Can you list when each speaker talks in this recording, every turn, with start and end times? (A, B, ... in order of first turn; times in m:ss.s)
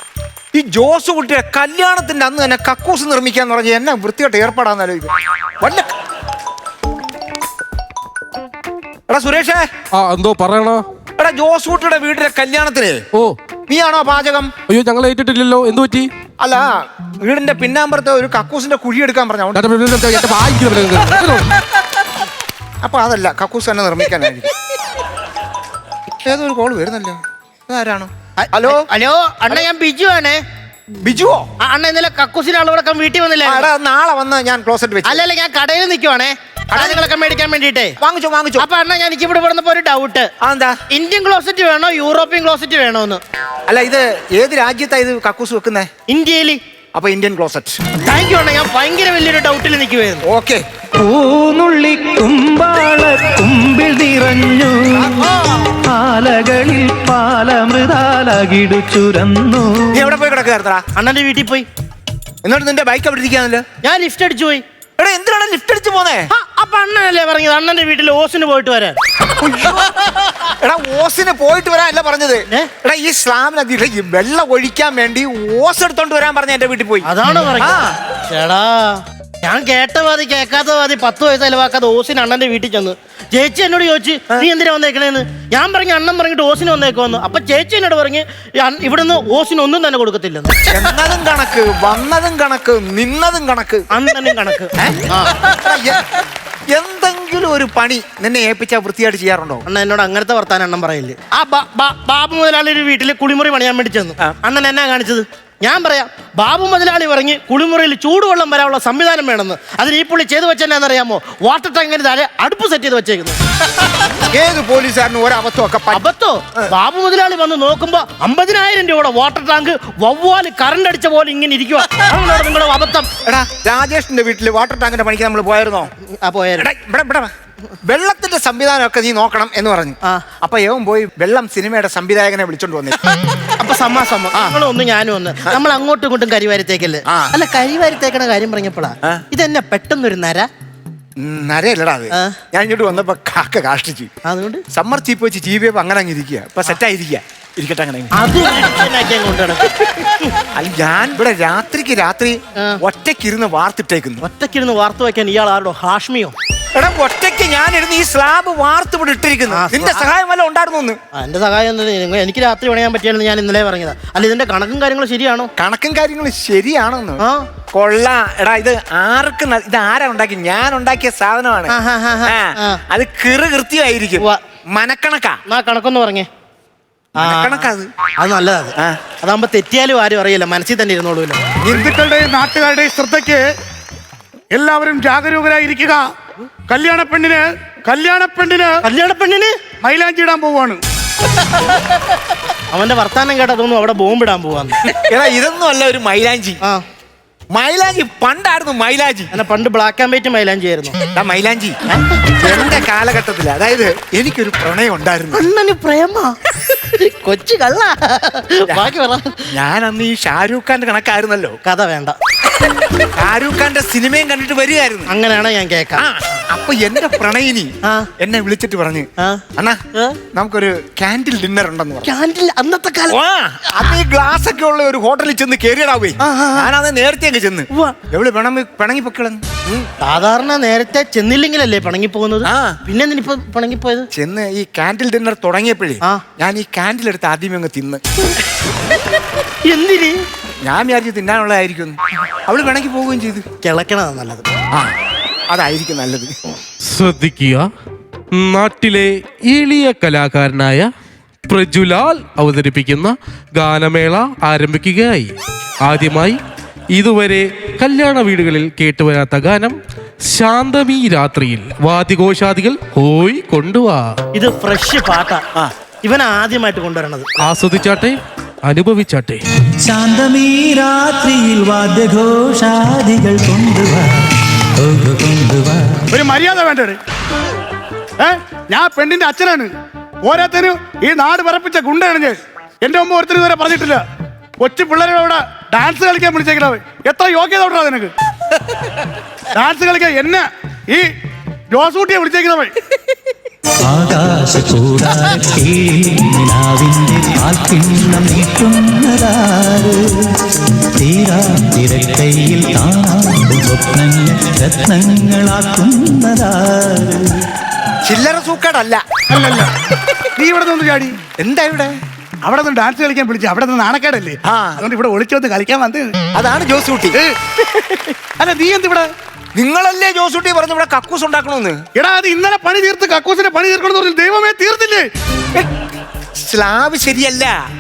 0:00.5-0:05.9 A
0:09.1-0:09.7 A
0:09.9-0:10.8 B
0:11.2-0:13.0 A
0:13.7-0:14.5 A
0:14.7-0:16.1 B
0:16.4-0:16.7 A
0:17.2-0:19.7 A
0:19.6-0:21.5 B
0:22.8-0:24.6 A
0:26.2-0:28.9 A
0:28.4-0:30.4 C
0:31.0-0:31.5 A
0:31.6-0:33.7 C
0:33.4-0:35.2 A
0:35.0-0:38.0 C
0:36.7-0:37.1 A
0:38.0-0:38.7 A
0:38.6-0:40.3 C
0:40.4-0:40.8 A
0:40.9-0:43.2 C
0:43.7-0:45.9 A
0:46.1-0:46.6 C
0:46.9-0:47.8 A
0:48.0-0:50.2 C
0:50.2-0:50.6 A
0:51.0-1:00.1 D
0:54.9-0:55.7 A
0:59.9-1:00.9 A
1:01.0-1:01.7 C
1:02.4-1:03.7 A
1:03.8-1:04.6 C
1:05.0-1:06.3 A
1:06.3-1:09.0 C
1:09.4-1:09.9 A
1:10.5-1:17.9 A
1:17.0-1:17.8 C
1:18.3-1:30.6 C
1:30.7-1:33.9 A
1:33.9-1:35.5 C
1:34.8-1:36.2 A
1:36.7-1:39.6 A
1:39.7-1:53.4 C
1:54.1-1:56.7 A
1:55.9-2:03.1 C
2:03.2-2:05.9 A
2:06.1-2:06.7 C
2:06.6-2:07.3 A
2:07.8-2:13.1 A
2:13.6-2:20.5 C
2:21.2-2:24.1 A
2:22.1-2:22.4 C
2:24.2-2:24.6 C
2:24.7-2:28.1 A
2:28.1-2:30.4 C
2:30.5-2:34.3 A
2:34.2-2:36.4 C
2:36.7-2:41.0 A
2:39.5-2:40.1 C
2:41.2-2:45.5 C
2:45.6-2:55.4 A
2:47.2-2:47.5 C
2:51.7-2:52.8 C
2:55.5-2:56.3 C
2:57.2-2:57.9 A
2:57.2-3:01.4 C
3:01.6-3:03.5 E
3:04.5-3:06.1 E
3:06.7-3:08.8 E
3:08.8-3:09.6 C
3:09.8-3:10.8 E
3:12.7-3:14.8 C
3:14.9-3:16.6 A
3:17.5-3:19.3 A
3:19.3-3:21.0 C
3:21.1-3:21.8 A
3:21.9-3:22.8 C
3:22.4-3:25.4 A
3:25.3-3:29.6 C
3:29.5-3:31.6 A
3:31.6-3:32.2 C
3:33.0-3:35.1 A
3:35.1-3:36.0 C
3:36.0-3:39.8 A
3:37.8-3:38.1 C
3:39.2-3:40.2 C
3:40.3-3:42.1 A
3:42.0-3:43.2 C
3:43.1-3:49.9 A
3:46.2-3:46.7 C
3:47.7-3:48.0 C
3:50.0-3:54.1 C
3:52.4-3:52.8 A
3:54.1-3:58.0 A
3:59.6-4:00.2 C
4:00.6-4:03.4 A
4:03.6-4:04.5 C
4:05.5-4:06.3 A
4:06.9-4:07.7 B
4:08.3-4:10.9 B
4:11.5-4:15.3 B
4:15.8-4:16.4 B
4:16.9-4:19.8 B
4:20.3-4:24.1 B
4:24.3-4:25.4 C
4:26.0-4:27.3 C
4:27.4-4:29.4 B
4:29.7-4:36.1 D
4:36.1-4:37.0 E
4:38.2-4:39.7 E
4:40.2-4:44.0 E
4:44.6-4:48.1 E
4:49.5-4:51.1 E
4:51.7-4:52.8 E
4:53.8-5:07.5 D
5:08.0-5:09.0 A
5:09.3-5:09.8 E
5:10.4-5:11.2 E
5:11.4-5:11.9 A
5:12.4-5:16.2 E
5:14.5-5:14.8 A
5:16.3-5:18.0 A
5:18.4-5:19.1 E
5:19.6-5:21.8 A
5:21.9-5:25.1 E
5:26.4-5:27.6 A